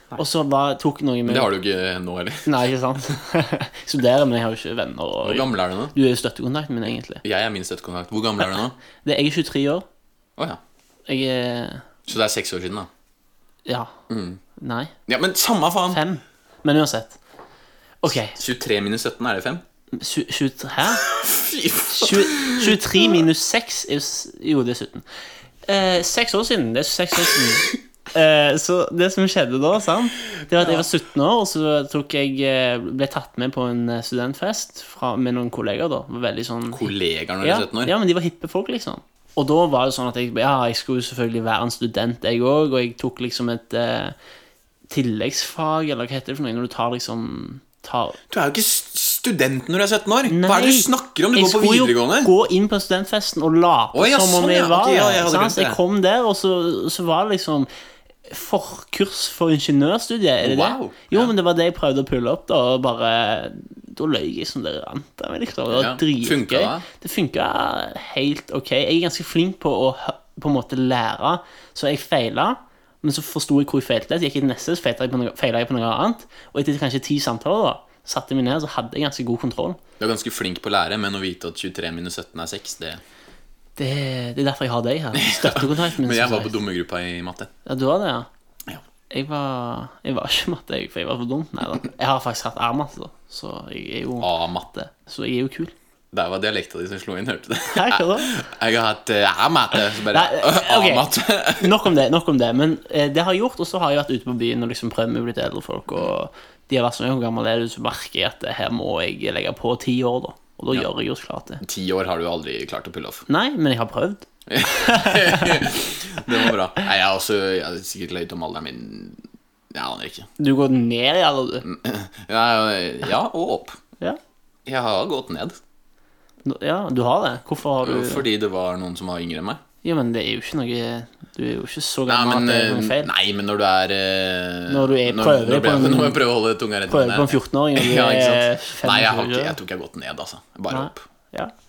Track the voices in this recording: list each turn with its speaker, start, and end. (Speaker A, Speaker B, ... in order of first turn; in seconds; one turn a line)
Speaker A: 0.1-1.5
Speaker B: 1.2-2.5
Speaker A: 2.5-7.2
Speaker B: 5.2-5.9
Speaker B: 7.2-8.8
Speaker A: 9.0-9.8
Speaker A: 11.1-11.8
Speaker B: 12.1-12.9
Speaker A: 13.7-13.9
Speaker B: 14.1-14.4
Speaker A: 14.6-14.9
Speaker B: 15.1-16.0
Speaker A: 15.9-17.2
Speaker A: 18.0-18.4
Speaker B: 18.2-19.6
Speaker A: 19.9-21.0
Speaker B: 20.8-23.3
Speaker A: 21.9-25.0
Speaker A: 25.6-44.1
Speaker B: 30.6-30.9
Speaker B: 36.7-37.9
Speaker A: 44.9-48.2
Speaker B: 48.3-52.3
Speaker A: 50.3-57.7
Speaker B: 53.9-55.8
Speaker A: 58.3-79.8
Speaker B: 60.4-61.3
Speaker B: 65.7-66.8
Speaker B: 80.0-83.0
Speaker A: 83.8-86.5
Speaker B: 85.1-87.5
Speaker A: 87.7-88.3
Speaker A: 89.1-95.7
Speaker B: 94.2-94.7
Speaker B: 96.1-101.8
Speaker A: 97.7-98.3
Speaker A: 100.0-111.6
Speaker B: 111.6-113.2
Speaker A: 113.3-115.7
Speaker B: 114.5-120.3
Speaker A: 120.4-121.7
Speaker B: 121.6-123.8
Speaker B: 124.7-125.6
Speaker A: 126.4-128.2
Speaker B: 127.8-129.6
Speaker A: 129.8-133.1
Speaker B: 132.1-141.0
Speaker A: 134.7-136.2
Speaker A: 136.9-139.6
Speaker A: 140.7-141.5